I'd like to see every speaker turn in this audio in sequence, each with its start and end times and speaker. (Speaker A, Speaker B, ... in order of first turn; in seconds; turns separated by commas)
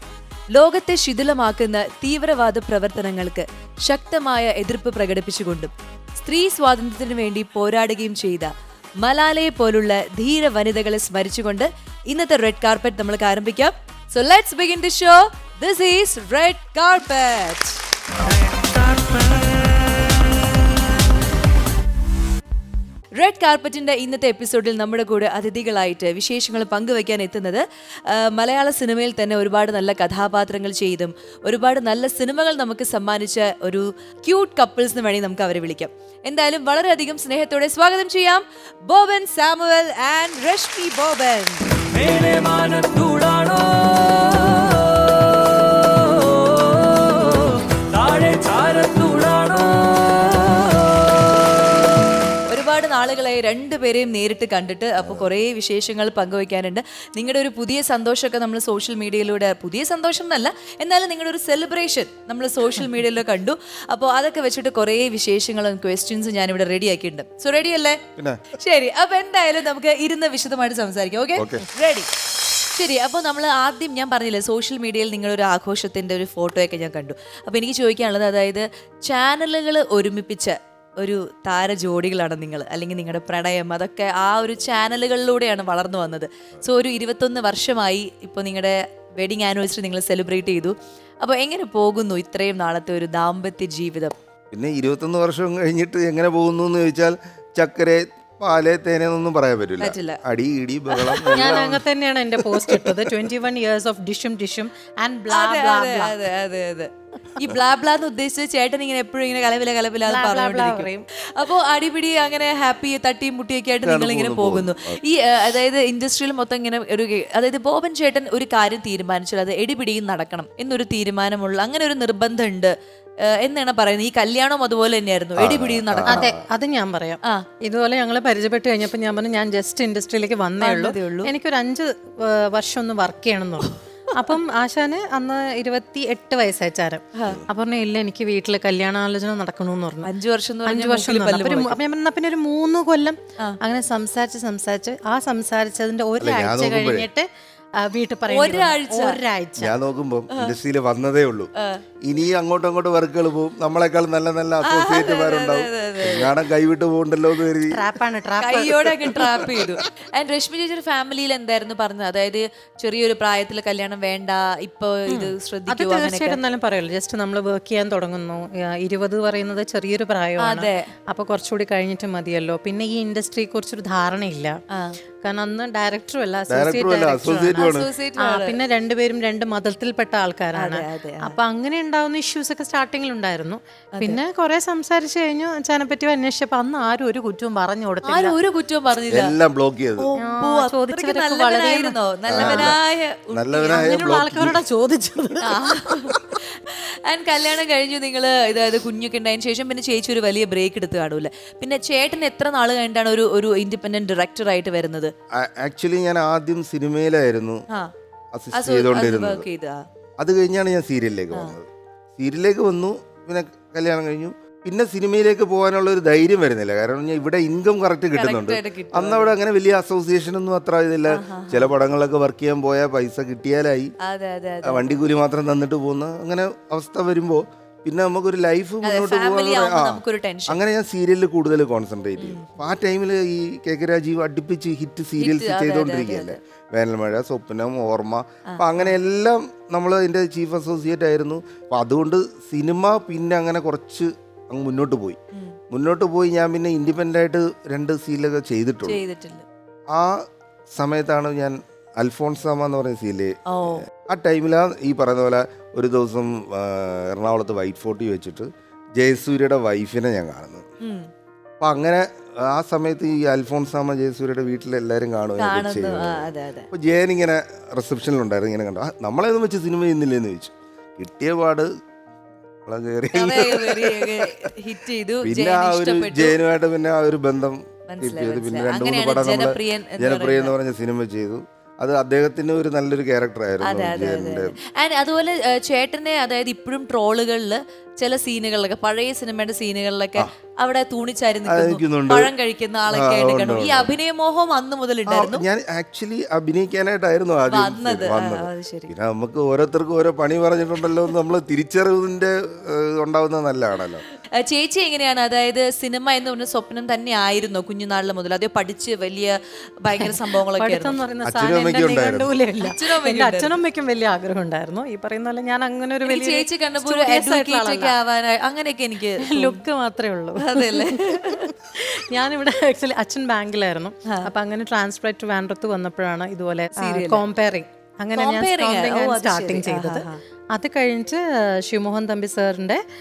Speaker A: 0.5-8.5, Speaker A: 9.0-17.8, Speaker A: 23.1-51.1, Speaker A: 52.5-68.0, Speaker B: 55.0-55.3, Speaker A: 68.6-72.1, Speaker B: 71.3-71.7, Speaker A: 72.7-94.1, Speaker B: 94.5-101.8, Speaker A: 99.8-100.2, Speaker A: 100.9-101.7, Speaker C: 101.3-106.2, Speaker B: 102.5-103.0, Speaker A: 105.3-122.7, Speaker C: 110.0-111.0, Speaker B: 113.8-115.0, Speaker A: 123.4-126.3, Speaker B: 125.4-126.4, Speaker C: 126.1-140.1, Speaker A: 130.6-131.3, Speaker A: 140.0-141.8, Speaker C: 140.6-147.2, Speaker B: 146.2-147.1, Speaker C: 147.8-149.8, Speaker A: 148.3-149.1, Speaker B: 149.6-151.5, Speaker B: 152.0-157.8, Speaker A: 154.7-156.3, Speaker C: 157.7-159.2, Speaker A: 158.4-166.4, Speaker B: 159.2-159.8, Speaker C: 165.1-174.6, Speaker A: 170.4-170.8, Speaker C: 175.2-188.4, Speaker B: 176.5-177.9, Speaker A: 177.6-178.6, Speaker A: 180.6-181.3, Speaker A: 188.0-189.4, Speaker B: 189.1-190.1, Speaker A: 190.0-194.0, Speaker C: 190.2-192.7, Speaker B: 192.3-192.8, Speaker B: 193.3-194.6, Speaker C: 193.7-196.1, Speaker A: 195.4-205.1, Speaker B: 205.3-207.6, Speaker B: 208.3-209.5, Speaker A: 208.5-209.8, Speaker B: 210.2-223.9, Speaker A: 218.1-219.3, Speaker A: 221.1-221.7, Speaker A: 224.1-224.9, Speaker B: 224.6-245.2, Speaker A: 228.8-230.6, Speaker A: 232.2-232.5, Speaker A: 235.2-236.4, Speaker A: 238.5-238.9, Speaker B: 245.7-249.0, Speaker A: 248.8-249.4, Speaker B: 249.9-260.6, Speaker A: 253.5-253.8, Speaker B: 261.6-271.7, Speaker A: 265.4-266.7, Speaker B: 272.7-274.3, Speaker A: 273.1-276.4, Speaker B: 275.2-284.6, Speaker A: 277.9-280.5, Speaker A: 283.6-295.4, Speaker B: 291.5-292.3, Speaker B: 292.9-294.0, Speaker B: 295.1-304.0, Speaker A: 297.5-298.9, Speaker A: 304.4-311.0, Speaker C: 310.0-317.9, Speaker B: 311.2-312.3, Speaker A: 312.6-313.5, Speaker A: 316.1-319.6, Speaker C: 319.2-332.8, Speaker A: 320.4-321.5, Speaker A: 326.8-327.2, Speaker A: 328.1-330.2